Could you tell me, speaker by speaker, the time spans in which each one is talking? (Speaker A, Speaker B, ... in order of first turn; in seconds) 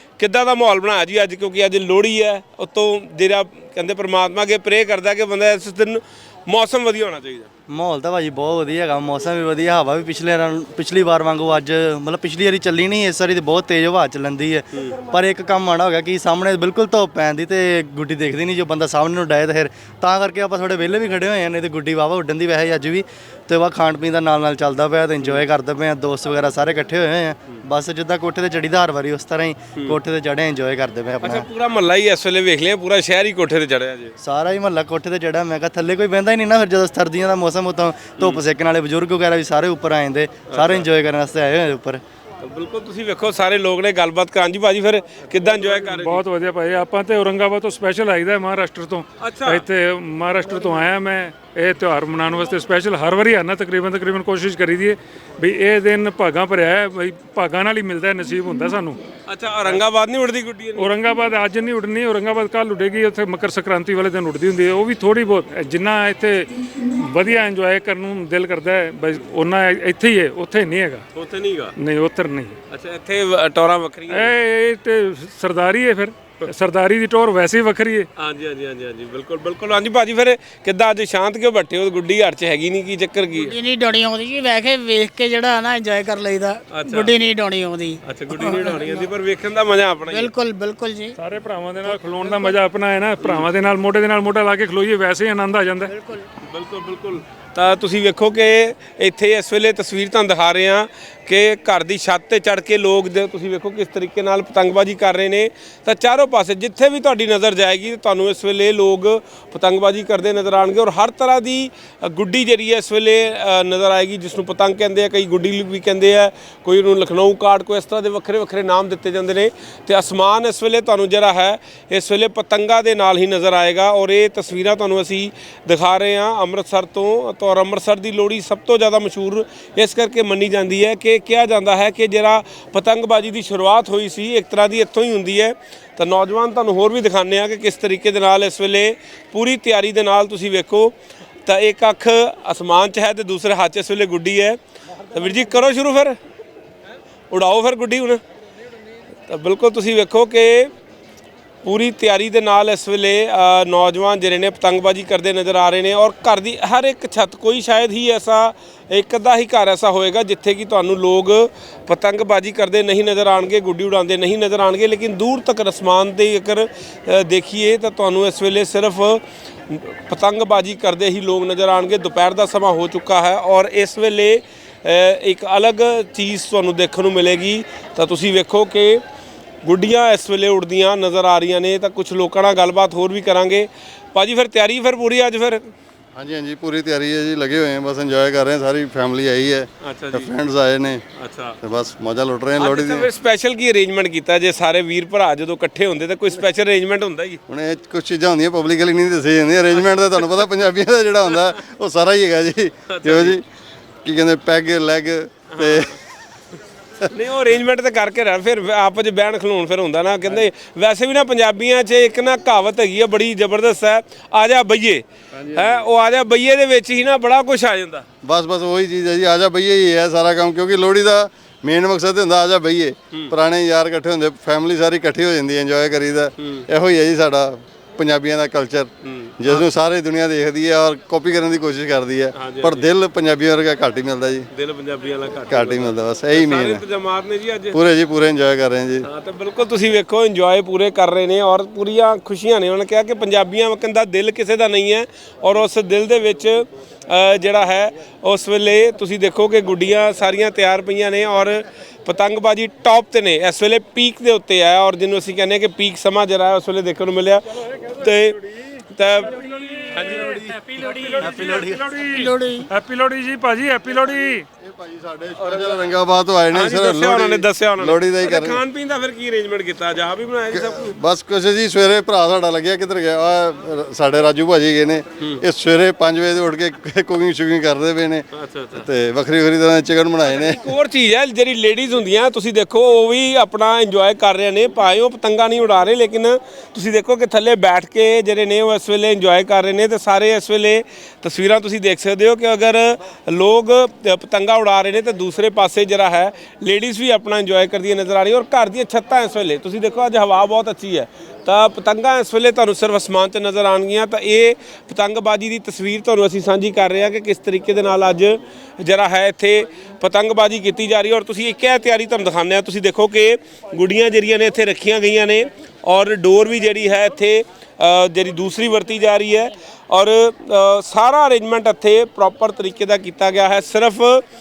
Speaker A: 0.2-7.5, 31.2-34.1, 40.5-40.9, 42.4-46.2, 49.2-49.6, 59.2-60.9, 71.2-71.7, 72.7-74.3, 78.2-83.5, 86.7-87.1, 88.0-90.3, 96.4-146.2, 147.3-148.2, 149.3-150.7, 151.6-179.0, 179.6-185.7, 189.8-190.3, 191.2-191.6, 192.6-197.4, 202.9-203.4, 205.5-206.0, 207.1-218.1, 226.4-226.7, 229.0-229.6, 232.3-232.9, 234.5-237.8, 239.0-261.8, 265.4-265.9, 266.5-270.9, 278.3-278.9, 280.2-324.2
Speaker B: 7.7-31.5, 34.2-42.0, 260.1-260.6, 261.2-261.9
Speaker C: 45.7-59.0, 60.8-71.0, 71.8-72.6, 74.1-78.1, 91.2-95.9, 260.5-264.5
Speaker D: 83.4-88.8, 90.1-91.2, 95.9-96.2, 262.1-262.7
Speaker E: 186.2-191.0, 191.6-193.1, 197.5-203.4, 204.1-206.0, 215.4-215.8, 218.2-234.5, 235.5-236.8, 237.7-239.1, 264.6-268.6, 270.5-280.7